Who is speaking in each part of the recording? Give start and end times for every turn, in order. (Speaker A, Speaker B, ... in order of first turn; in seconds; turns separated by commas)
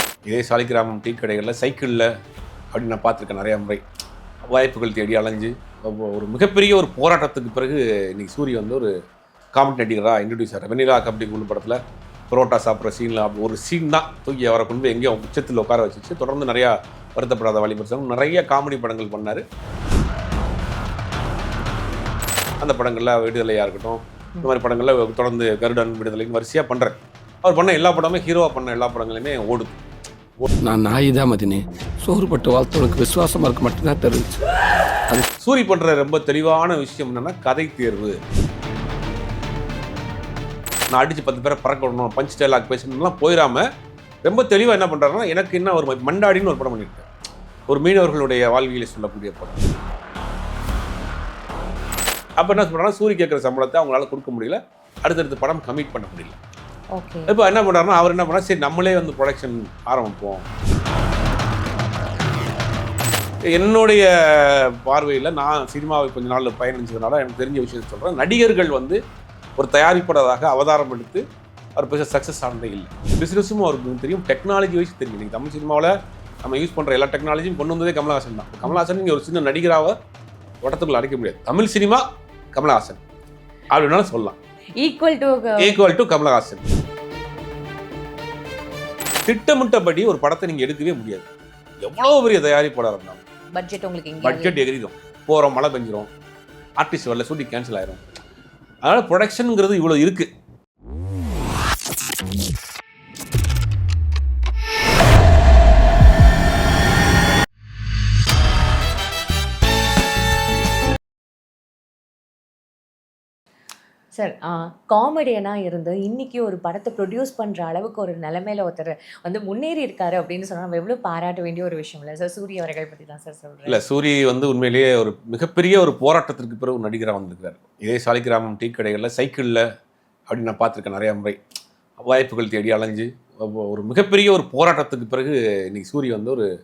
Speaker A: 0.3-2.1, Speaker A: 2.7-3.8, Speaker A: 4.5-8.9, Speaker A: 9.6-11.8, Speaker A: 12.3-19.4, Speaker A: 22.6-29.8, Speaker B: 30.6-34.4, Speaker A: 35.4-38.2, Speaker A: 40.9-43.6, Speaker A: 44.2-47.1, Speaker A: 47.7-49.6, Speaker A: 52.4-56.4, Speaker C: 57.0-57.3, Speaker A: 57.3-60.4, Speaker A: 63.5-69.0, Speaker A: 69.6-71.2, Speaker A: 71.8-79.9, Speaker A: 80.6-83.0, Speaker A: 83.7-84.4, Speaker C: 84.8-85.8, Speaker A: 85.6-86.6, Speaker A: 89.2-91.3, Speaker A: 91.8-93.2, Speaker C: 93.5-94.6, Speaker A: 94.2-96.1, Speaker A: 96.8-98.0, Speaker A: 98.8-100.3, Speaker C: 114.1-123.8, Speaker A: 123.7-129.6, Speaker A: 130.3-131.4, Speaker A: 132.0-136.5